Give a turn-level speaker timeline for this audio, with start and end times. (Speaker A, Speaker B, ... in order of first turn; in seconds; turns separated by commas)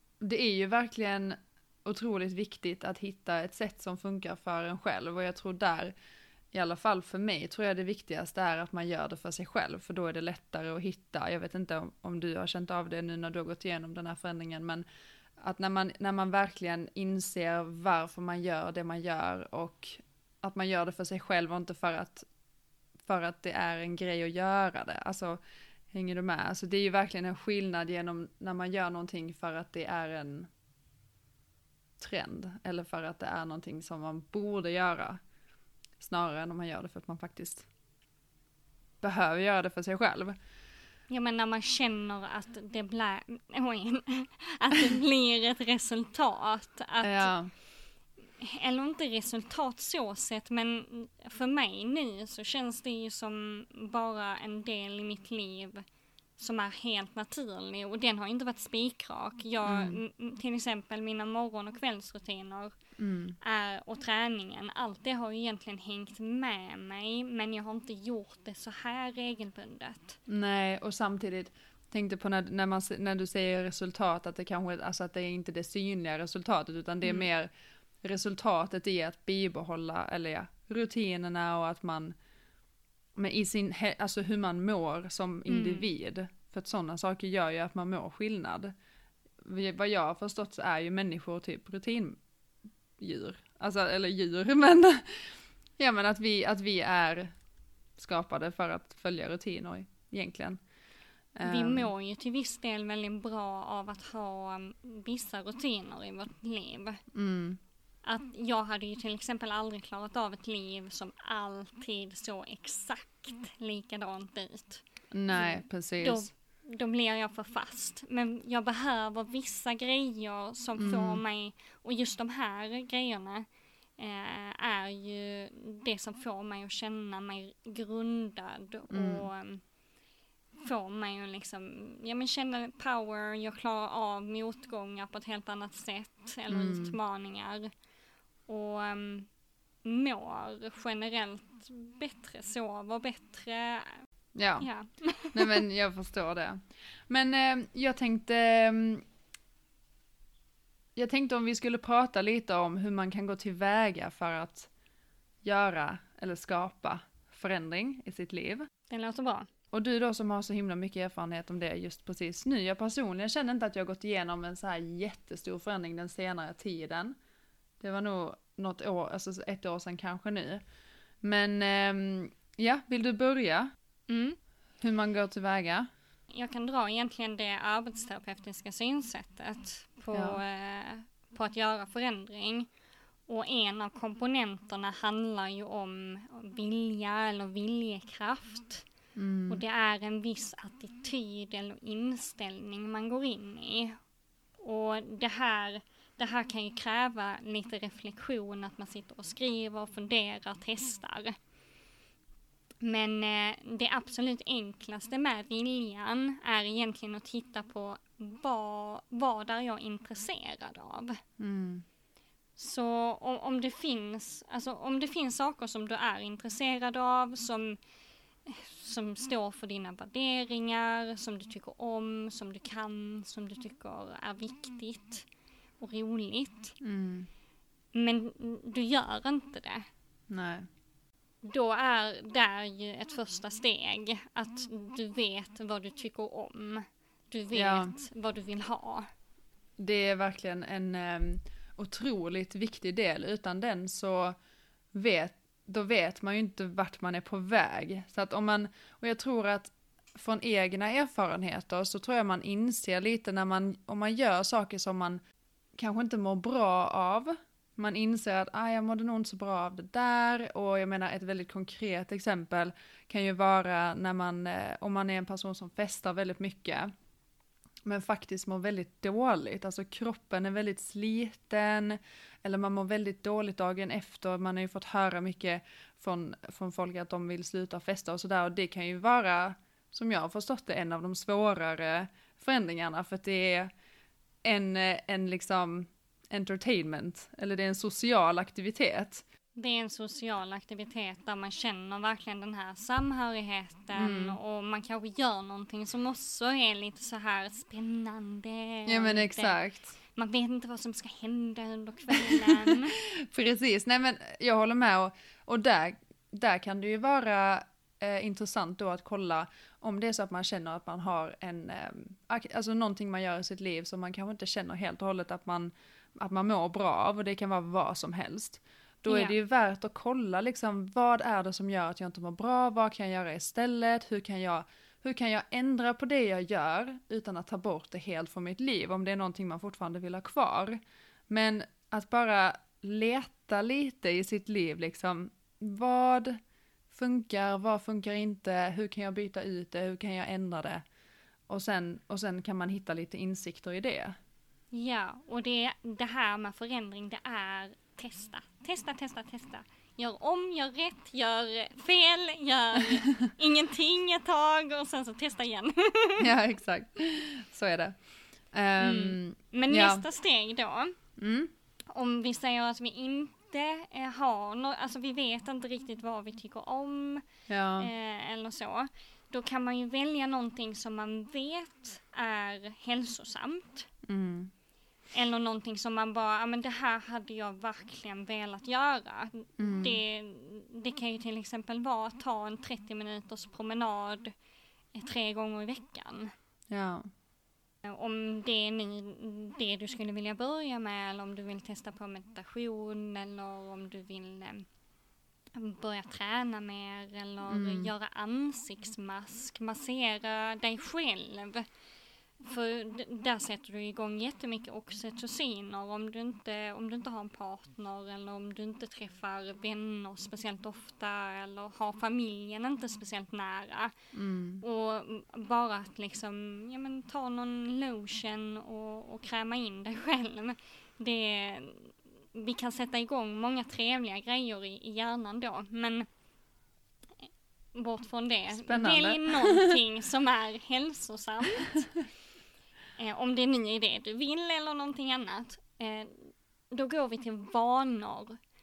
Speaker A: 0.2-5.9, Speaker A: 6.5-14.8, Speaker A: 15.4-22.3, Speaker A: 23.0-25.4, Speaker A: 25.9-30.5, Speaker A: 32.0-35.2, Speaker A: 36.0-37.7, Speaker A: 39.0-40.4, Speaker B: 41.1-47.3, Speaker A: 47.0-47.5, Speaker B: 48.4-55.8, Speaker B: 56.4-62.7, Speaker A: 59.6-60.0, Speaker A: 63.0-63.4, Speaker B: 63.4-70.2, Speaker A: 70.3-77.5, Speaker A: 78.0-82.1, Speaker A: 83.2-88.7, Speaker B: 85.5-85.8, Speaker A: 89.4-92.2, Speaker A: 93.0-97.3, Speaker A: 98.0-100.6, Speaker A: 101.3-101.9, Speaker B: 101.4-107.0, Speaker A: 107.1-107.6, Speaker B: 108.0-123.5, Speaker A: 115.1-116.3, Speaker A: 120.8-121.2, Speaker B: 124.0-129.6, Speaker A: 128.9-129.2, Speaker B: 130.6-137.7, Speaker A: 136.5-136.9, Speaker B: 138.5-139.3, Speaker B: 139.8-144.0, Speaker A: 144.3-144.7, Speaker B: 144.6-145.6, Speaker A: 145.3-149.0, Speaker A: 150.9-154.7, Speaker A: 155.4-158.7, Speaker B: 158.9-159.5, Speaker A: 159.7-167.2, Speaker A: 167.8-170.6, Speaker A: 171.2-173.7, Speaker B: 174.1-174.4, Speaker A: 174.8-175.9, Speaker B: 176.3-182.7, Speaker A: 180.1-180.4, Speaker B: 183.3-188.8, Speaker A: 189.2-189.6, Speaker B: 189.5-194.0, Speaker B: 194.6-201.4, Speaker B: 202.8-211.2, Speaker A: 211.4-211.8, Speaker B: 212.6-217.8, Speaker B: 218.4-225.2, Speaker B: 225.8-226.7, Speaker A: 226.8-227.3, Speaker B: 227.9-229.8, Speaker A: 230.3-230.7, Speaker B: 231.4-239.1, Speaker A: 237.5-237.9, Speaker A: 239.8-244.3, Speaker A: 244.9-255.2, Speaker A: 255.8-266.9, Speaker A: 267.8-283.7, Speaker A: 284.4-289.2, Speaker B: 289.5-299.6, Speaker A: 294.0-294.4, Speaker A: 298.9-299.9, Speaker B: 300.1-303.0, Speaker A: 302.1-336.4, Speaker B: 319.1-319.3, Speaker A: 336.9-340.8, Speaker A: 341.5-344.1, Speaker B: 344.7-356.3, Speaker A: 352.9-353.3, Speaker A: 356.2-357.9, Speaker A: 358.5-360.0, Speaker B: 358.8-361.0, Speaker A: 361.2-361.5, Speaker B: 361.9-367.2, Speaker A: 367.5-367.9, Speaker B: 367.8-373.9, Speaker A: 374.0-374.5, Speaker B: 375.1-384.3, Speaker A: 379.6-380.0, Speaker B: 384.9-386.3, Speaker A: 386.7-387.0, Speaker B: 387.8-394.6, Speaker B: 395.5-401.6, Speaker A: 397.5-397.9, Speaker B: 402.4-413.9, Speaker A: 414.1-414.6, Speaker B: 414.6-426.1, Speaker B: 427.7-431.9, Speaker A: 428.6-429.7, Speaker B: 433.0-438.4